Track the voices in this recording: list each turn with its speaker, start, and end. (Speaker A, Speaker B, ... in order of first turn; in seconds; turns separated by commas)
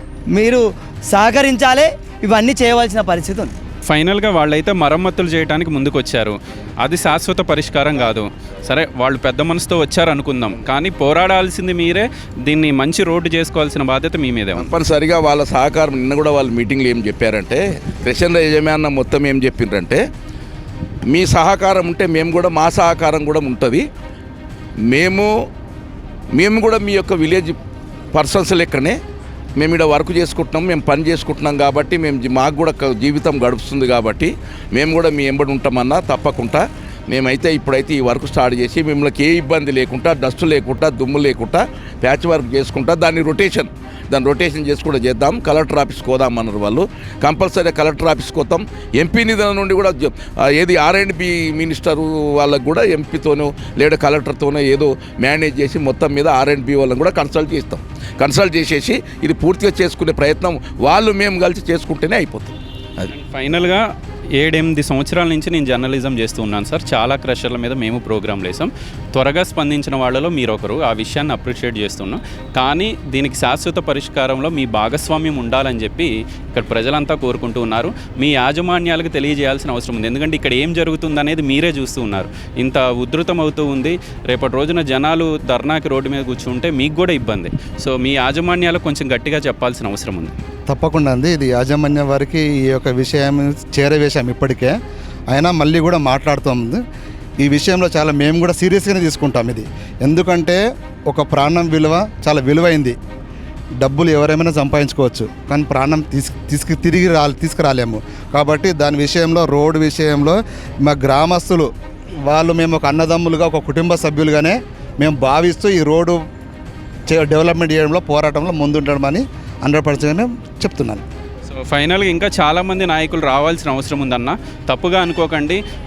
Speaker A: 0.3-3.5, Speaker B: 3.9-14.7, Speaker C: 14.6-20.0, Speaker C: 21.1-23.9, Speaker C: 24.9-25.3, Speaker C: 26.3-27.6, Speaker C: 28.1-29.0, Speaker C: 29.6-63.1, Speaker B: 63.1-63.8, Speaker B: 64.4-90.3, Speaker D: 90.7-94.8, Speaker D: 95.3-96.8, Speaker D: 97.4-103.0, Speaker D: 103.8-111.7, Speaker D: 112.3-116.2, Speaker D: 117.1-121.0, Speaker B: 121.5-125.6